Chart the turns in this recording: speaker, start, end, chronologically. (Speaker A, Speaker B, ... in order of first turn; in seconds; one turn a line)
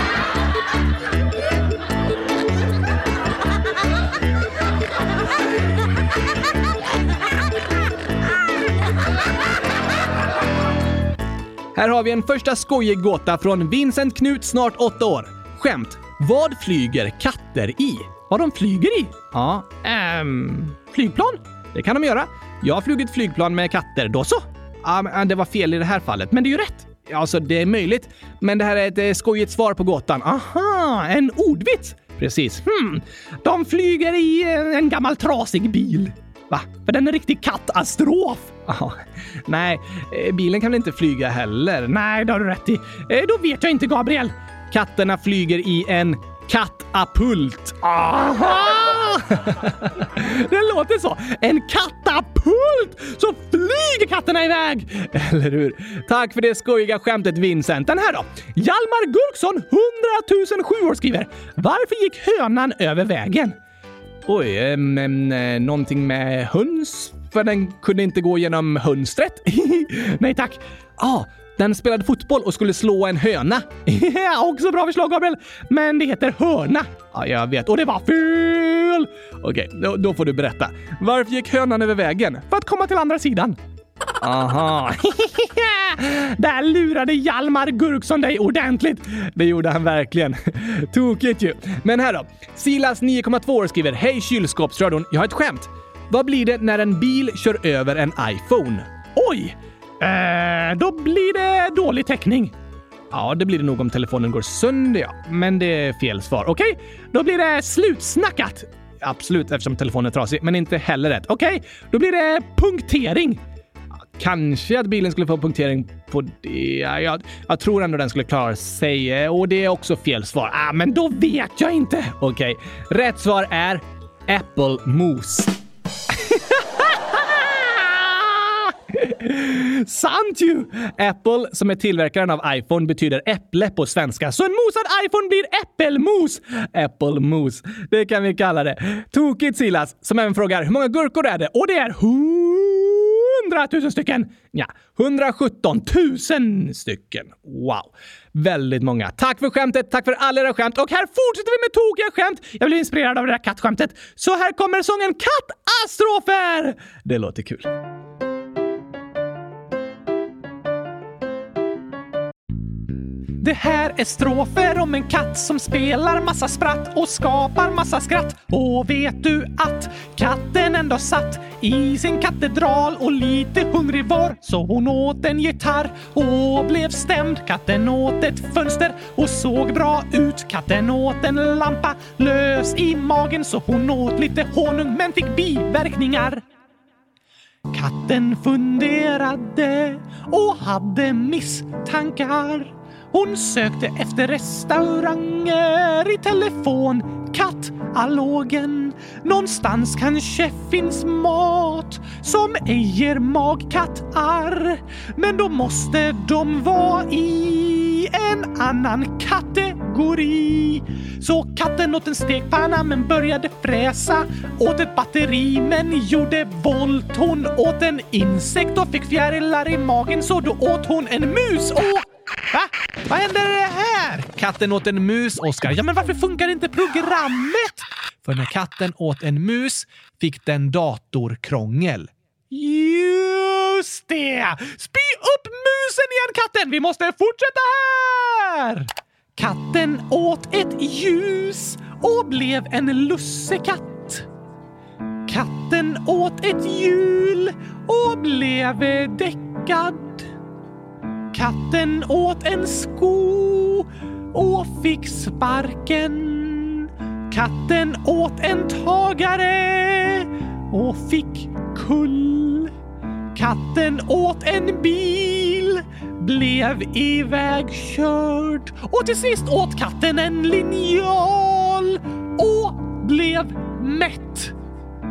Speaker A: 11.7-63.5
Speaker A: 64.2-83.6
Speaker A: 84.2-102.5
Speaker A: 103.1-113.4
Speaker A: 114.1-125.5
Speaker A: 126.1-157.7
Speaker A: 163.4-186.4
Speaker A: 187.7-244.3
Speaker A: 245.2-250.2
Speaker A: 251.3-262.7
Speaker A: 263.3-274.5